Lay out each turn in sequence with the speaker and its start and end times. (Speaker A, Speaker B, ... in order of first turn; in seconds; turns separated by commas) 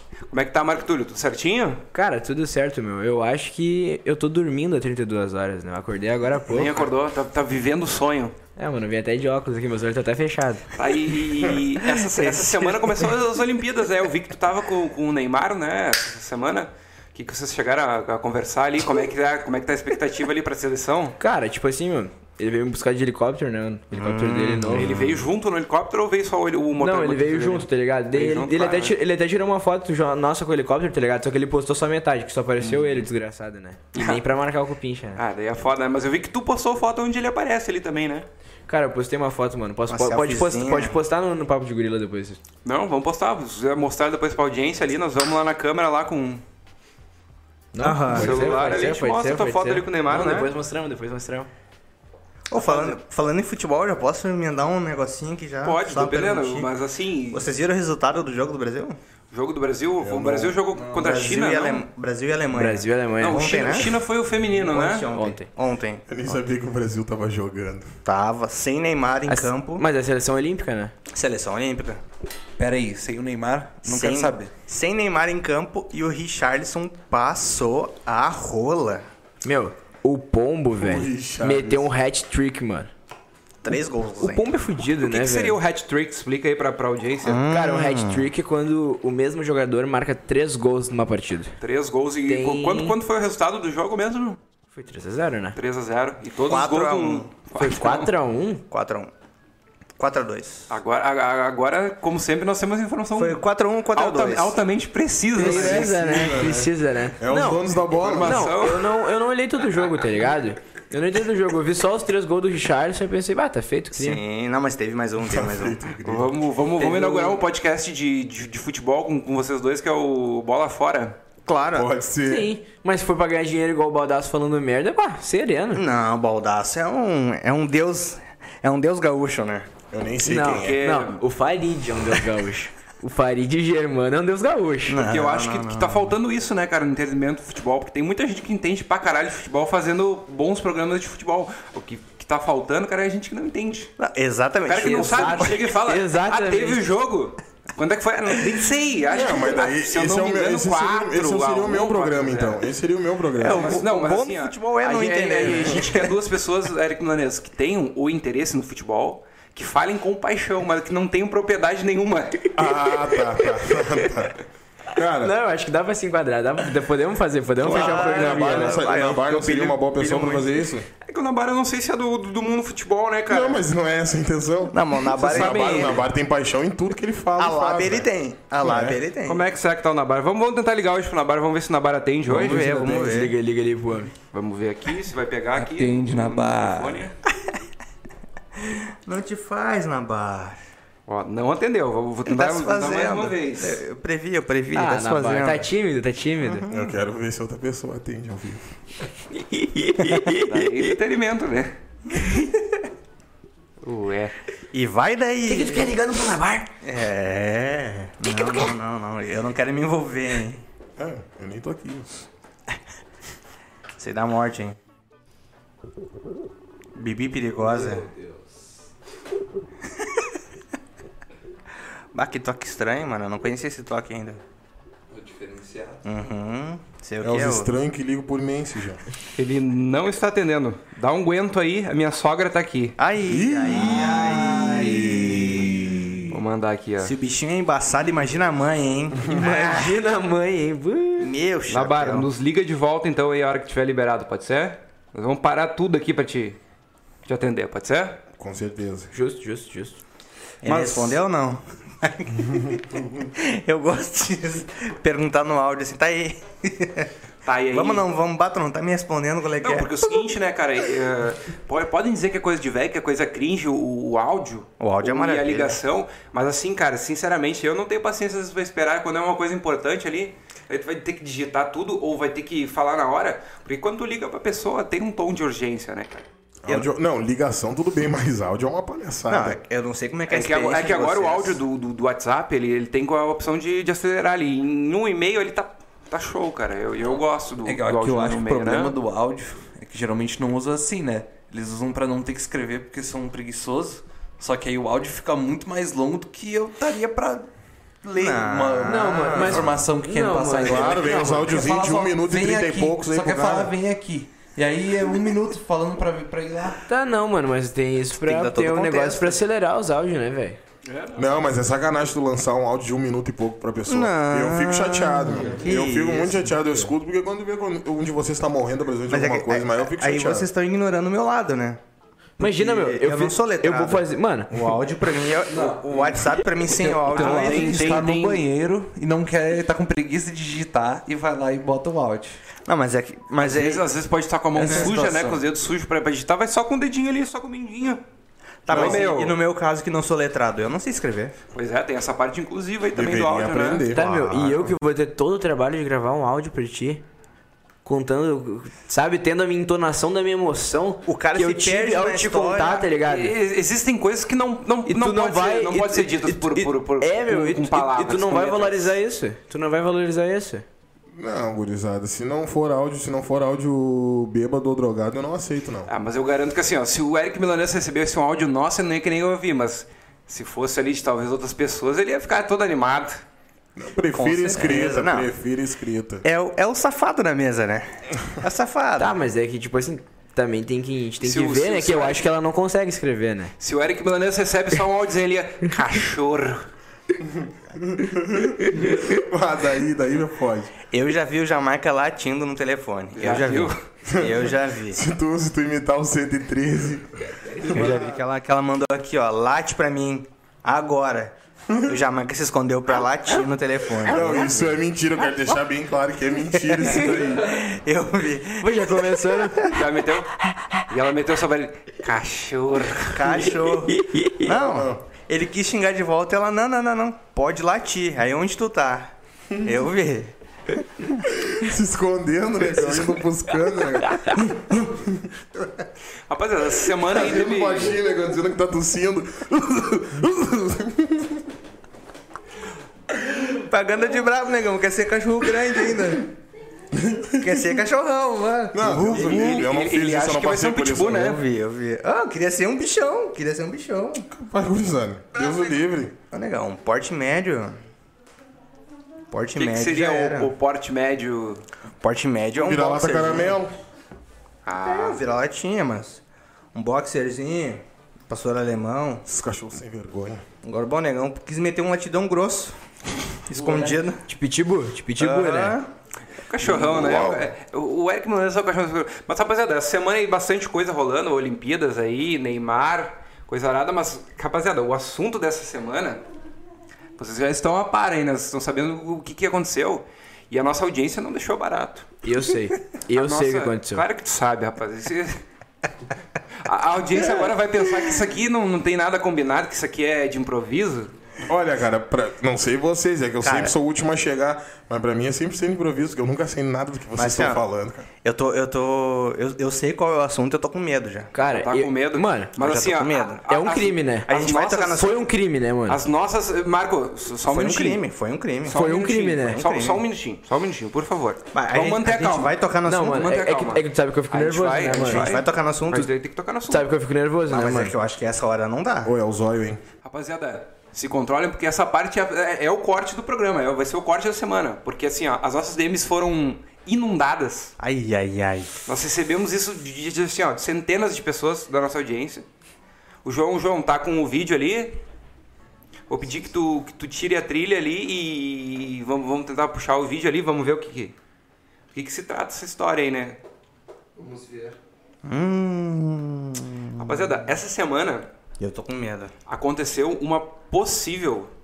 Speaker A: 0.3-1.8, Speaker B: 1.9-6.8, Speaker A: 6.5-8.3, Speaker B: 8.6-10.6, Speaker A: 10.7-21.1, Speaker B: 12.2-12.7, Speaker B: 21.2-25.1, Speaker C: 23.9-25.2, Speaker A: 24.7-28.9, Speaker B: 26.8-35.2, Speaker A: 32.6-33.0, Speaker C: 34.0-34.2, Speaker A: 35.2-38.2, Speaker B: 38.7-42.4, Speaker C: 39.9-41.0, Speaker A: 42.6-46.4, Speaker B: 47.7-51.5, Speaker C: 47.8-48.6, Speaker A: 48.1-50.5, Speaker C: 50.1-50.4, Speaker C: 52.5-56.7, Speaker A: 52.6-53.0, Speaker A: 55.6-57.5, Speaker C: 57.3-59.0, Speaker A: 59.3-61.8, Speaker D: 60.0-60.6, Speaker C: 60.8-64.0, Speaker B: 62.5-63.8, Speaker A: 63.2-65.1, Speaker C: 64.5-66.1, Speaker B: 65.1-65.5, Speaker D: 66.1-67.9, Speaker C: 68.0-69.8, Speaker B: 69.3-70.9, Speaker C: 71.1-72.0, Speaker E: 72.6-74.5, Speaker C: 73.8-79.0, Speaker B: 79.4-82.9, Speaker D: 80.8-81.9, Speaker C: 83.6-84.5, Speaker B: 84.2-85.6, Speaker A: 85.0-87.4, Speaker C: 87.2-88.3, Speaker B: 87.5-91.5, Speaker A: 91.6-94.4, Speaker B: 92.3-93.0, Speaker B: 94.7-95.6, Speaker A: 95.5-98.1, Speaker C: 96.4-97.3, Speaker B: 97.6-98.6, Speaker C: 98.7-99.1, Speaker C: 100.0-100.7, Speaker A: 100.7-106.1, Speaker C: 103.2-104.6, Speaker B: 105.4-107.7, Speaker D: 105.4-108.5, Speaker A: 108.0-108.9, Speaker B: 108.2-114.2, Speaker C: 113.9-115.8, Speaker D: 115.2-116.3, Speaker A: 116.0-121.2, Speaker B: 116.8-117.4, Speaker C: 121.5-121.9, Speaker D: 121.7-122.5, Speaker B: 122.2-125.8, Speaker C: 125.7-129.7, Speaker D: 129.9-130.8, Speaker B: 130.2-135.1, Speaker A: 130.5-131.2, Speaker C: 134.9-136.1, Speaker A: 135.0-143.9, Speaker C: 144.0-145.6, Speaker A: 144.7-152.6, Speaker B: 144.8-146.8, Speaker D: 149.1-153.8, Speaker C: 153.4-156.1, Speaker A: 153.4-162.5, Speaker D: 162.5-164.3, Speaker D: 164.9-165.3, Speaker B: 165.2-168.8, Speaker C: 167.6-170.5, Speaker D: 167.6-170.9, Speaker A: 171.0-173.6, Speaker D: 173.3-178.1, Speaker C: 174.7-176.0, Speaker A: 175.1-176.0, Speaker C: 177.4-179.4, Speaker D: 178.6-179.0, Speaker A: 179.2-182.7, Speaker C: 182.3-183.3, Speaker E: 182.3-183.2, Speaker B: 182.7-184.1, Speaker A: 184.3-187.1, Speaker E: 185.6-187.0, Speaker C: 188.6-190.6, Speaker A: 191.1-193.8, Speaker C: 192.3-195.7, Speaker B: 194.7-196.7, Speaker D: 196.7-198.7, Speaker B: 199.4-200.8, Speaker C: 200.0-200.3, Speaker A: 200.4-201.8, Speaker C: 202.1-202.6, Speaker A: 203.8-204.3, Speaker C: 204.7-205.9, Speaker B: 205.4-206.7, Speaker C: 206.8-210.6, Speaker D: 211.0-212.2, Speaker C: 214.0-214.8, Speaker C: 216.9-218.1, Speaker E: 217.6-218.9, Speaker C: 222.1-224.4, Speaker E: 225.1-226.0, Speaker C: 226.0-227.7, Speaker D: 227.2-229.0, Speaker A: 229.3-233.0, Speaker C: 233.0-235.2, Speaker D: 233.2-235.9, Speaker E: 233.7-236.3, Speaker A: 236.3-237.1, Speaker C: 237.0-240.0, Speaker B: 239.3-241.3, Speaker C: 241.2-242.3, Speaker A: 241.7-246.6, Speaker A: 247.2-248.2, Speaker D: 248.4-249.1, Speaker B: 249.1-250.0, Speaker C: 250.6-257.1, Speaker A: 257.4-258.1, Speaker C: 257.7-259.9, Speaker A: 259.6-276.2, Speaker C: 264.8-265.8, Speaker D: 276.6-279.6, Speaker C: 279.3-281.6, Speaker A: 280.3-288.9, Speaker E: 287.6-297.5, Speaker E: 298.0-306.8, Speaker C: 298.1-299.7, Speaker B: 298.9-301.7, Speaker D: 300.6-303.7, Speaker B: 306.9-310.6, Speaker C: 308.2-309.4, Speaker A: 310.8-311.3, Speaker D: 311.1-320.5, Speaker C: 313.9-316.5, Speaker C: 319.1-321.8, Speaker B: 322.4-324.6, Speaker C: 322.4-328.1, Speaker E: 325.5-332.4, Speaker A: 327.1-328.4, Speaker C: 332.6-333.9, Speaker A: 333.4-338.0, Speaker E: 334.6-335.4, Speaker C: 334.6-334.9, Speaker C: 338.6-341.3, Speaker A: 338.7-339.4, Speaker D: 338.7-339.0, Speaker A: 341.5-343.9, Speaker D: 342.9-344.0, Speaker C: 343.9-344.7, Speaker B: 343.9-347.0, Speaker B: 347.9-353.3, Speaker C: 351.1-352.9, Speaker A: 353.0-358.9, Speaker B: 354.9-360.6, Speaker D: 361.1-365.9, Speaker A: 365.9-373.2, Speaker D: 373.8-376.2, Speaker C: 374.1-375.3, Speaker C: 376.2-379.1, Speaker B: 379.0-383.5, Speaker A: 381.2-382.4, Speaker A: 383.6-386.7, Speaker D: 387.4-390.7, Speaker C: 390.9-395.0, Speaker A: 393.1-393.8, Speaker D: 394.1-398.0, Speaker C: 397.6-404.5, Speaker D: 404.1-407.6, Speaker C: 406.7-409.6, Speaker B: 408.6-409.8, Speaker A: 409.6-410.3, Speaker A: 410.9-413.6, Speaker C: 413.1-420.3, Speaker B: 413.9-414.5, Speaker D: 414.5-415.0, Speaker D: 421.3-425.9, Speaker B: 424.1-424.4, Speaker A: 426.3-428.0, Speaker D: 426.9-431.5, Speaker C: 433.4-436.3, Speaker D: 436.9-437.8, Speaker C: 437.4-439.6, Speaker D: 438.7-441.2, Speaker A: 439.1-441.4, Speaker C: 441.1-444.3, Speaker D: 444.3-446.1, Speaker C: 446.3-447.8, Speaker C: 449.3-450.5, Speaker A: 449.6-451.6, Speaker C: 452.0-453.6, Speaker D: 452.6-453.7, Speaker A: 454.6-455.2, Speaker C: 454.8-456.2, Speaker C: 456.7-459.2, Speaker D: 459.2-460.4, Speaker C: 460.6-462.8, Speaker C: 463.5-464.2, Speaker E: 463.6-463.9, Speaker B: 464.2-465.8, Speaker C: 465.2-465.9, Speaker A: 466.5-476.2, Speaker C: 466.6-467.5, Speaker A: 477.2-482.1, Speaker B: 482.2-484.0, Speaker A: 483.1-485.4, Speaker A: 486.6-491.1, Speaker D: 491.5-498.1, Speaker C: 493.4-493.7, Speaker C: 497.1-497.6, Speaker C: 498.2-501.3, Speaker B: 501.3-502.5, Speaker A: 501.5-505.1, Speaker C: 502.6-503.4, Speaker B: 503.5-504.3, Speaker C: 504.3-505.2, Speaker B: 505.0-506.0, Speaker A: 505.9-508.0, Speaker C: 507.5-508.8, Speaker A: 508.6-512.5, Speaker B: 508.7-509.6, Speaker C: 509.5-510.0, Speaker C: 511.5-513.2, Speaker B: 512.9-515.3, Speaker A: 513.1-516.9, Speaker C: 515.0-516.1, Speaker B: 516.7-517.9, Speaker C: 517.5-519.1, Speaker D: 519.0-519.8, Speaker A: 520.0-527.7, Speaker C: 527.8-528.7, Speaker A: 528.9-532.4, Speaker A: 533.2-535.0, Speaker A: 536.1-541.1, Speaker A: 541.9-543.4, Speaker E: 544.1-544.8, Speaker C: 545.2-547.3, Speaker A: 547.0-548.3, Speaker C: 548.6-549.3, Speaker A: 549.5-551.5